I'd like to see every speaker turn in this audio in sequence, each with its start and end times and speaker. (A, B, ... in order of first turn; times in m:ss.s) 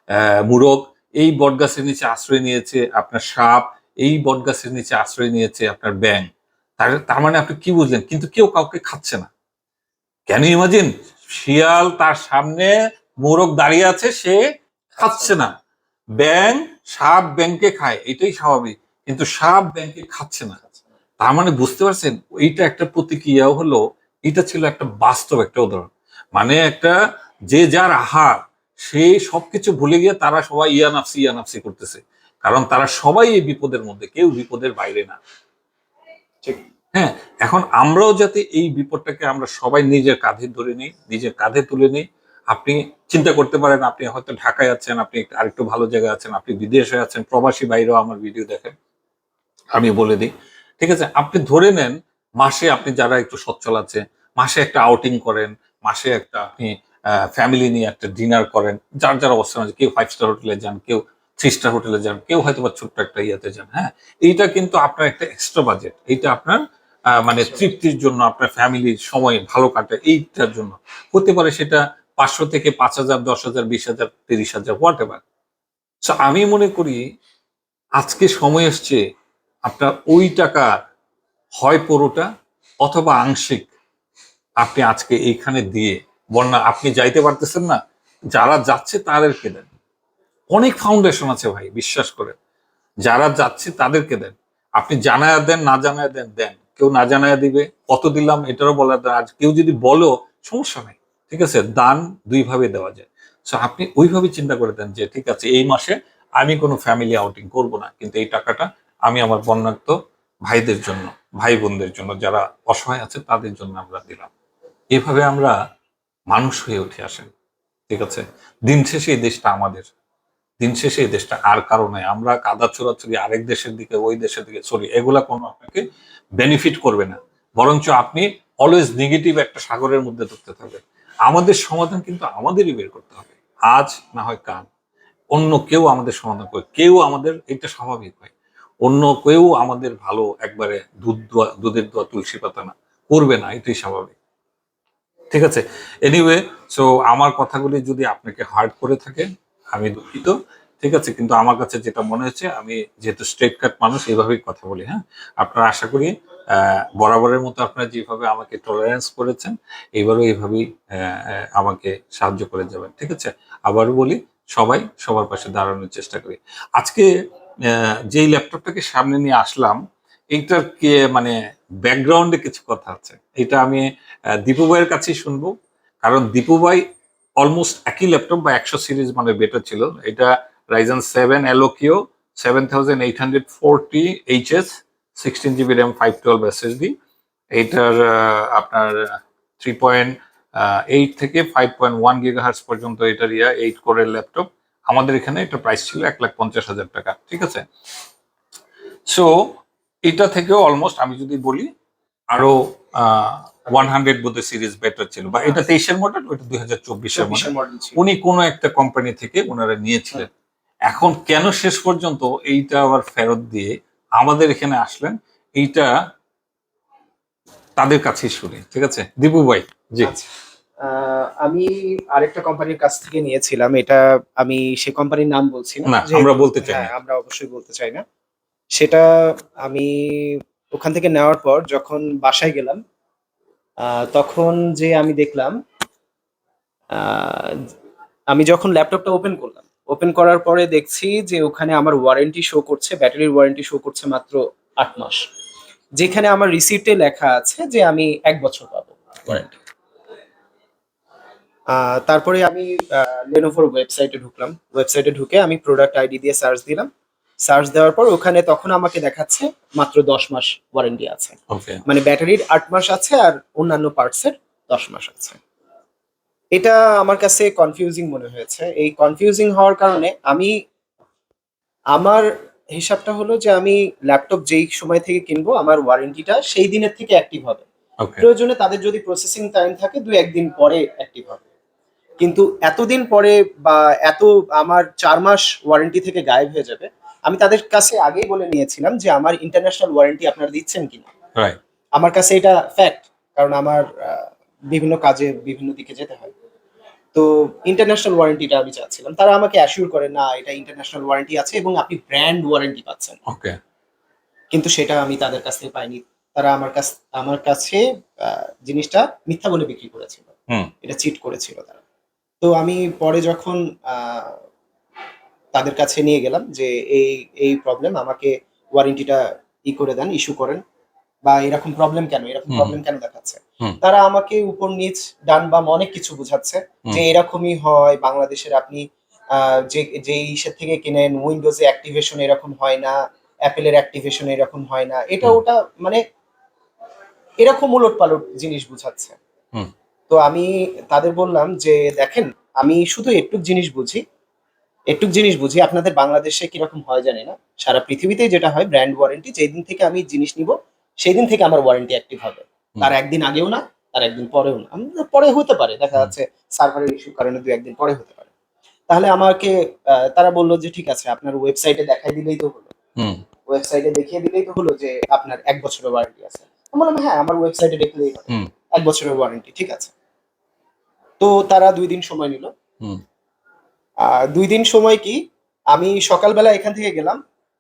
0:00.5-0:06.3 A
0:06.8-0:09.3 A
0:10.3-0:12.7 A
0:13.2-0:14.4 A
0:15.0-0:15.5 A
0:15.0-0:15.4 B
0:16.2-0:20.6 A
0:21.2-0:26.9 A
0:27.5-0:35.2 A
0:36.9-0:48.8 A
0:49.7-1:06.6 A
1:07.2-1:15.2 A
1:07.4-1:07.7 B
1:16.0-1:17.0 A
1:18.0-1:19.0 A
1:19.7-1:20.7 A
1:21.6-1:22.3 A
1:22.8-1:23.7 A
1:24.6-1:27.8 A
1:28.3-1:29.7 A
1:30.5-1:32.4 A
1:33.0-1:54.3 A
1:54.9-1:55.5 A
1:56.3-1:57.3 A
1:57.9-1:59.9 A
2:00.6-2:05.8 A
2:06.4-2:14.7 A
2:15.3-2:18.3 A
2:18.8-2:24.2 A
2:25.3-2:47.1 A
2:48.1-2:49.8 A
2:50.3-2:53.9 A
2:54.4-2:56.8 A
2:57.4-3:06.9 A
3:07.5-3:09.0 A
3:09.6-3:17.6 A
3:20.1-3:21.7 A
3:22.3-3:30.3 A
3:27.1-3:28.0 B
3:30.9-3:35.9 A
3:37.8-3:40.1 A
3:40.0-3:40.3 B
3:40.8-3:48.0 B
3:45.9-3:46.9 A
3:48.8-3:52.8 B
3:53.8-3:55.5 B
3:56.9-3:57.6 B
3:58.3-4:05.2 B
4:06.0-4:09.5 B
4:11.7-4:16.9 B
4:17.4-4:25.4 B
4:21.5-4:21.8 A
4:26.6-4:30.5 B
4:31.9-4:37.6 B
4:38.2-4:41.4 B
4:42.2-4:51.1 B
4:52.0-4:56.3 B
4:57.1-5:03.2 B
5:03.3-5:03.6 A
5:04.5-5:10.3 B
5:10.8-5:11.8 B
5:12.4-5:14.4 B
5:15.5-5:20.6 B
5:21.2-5:36.0 B
5:22.5-5:22.8 A
5:37.4-5:39.2 B
5:40.1-5:44.0 B
5:44.9-5:58.3 B
5:58.9-6:02.7 B
6:03.5-6:09.9 B
6:11.2-6:12.5 B
6:14.0-6:15.2 B
6:15.7-6:17.2 B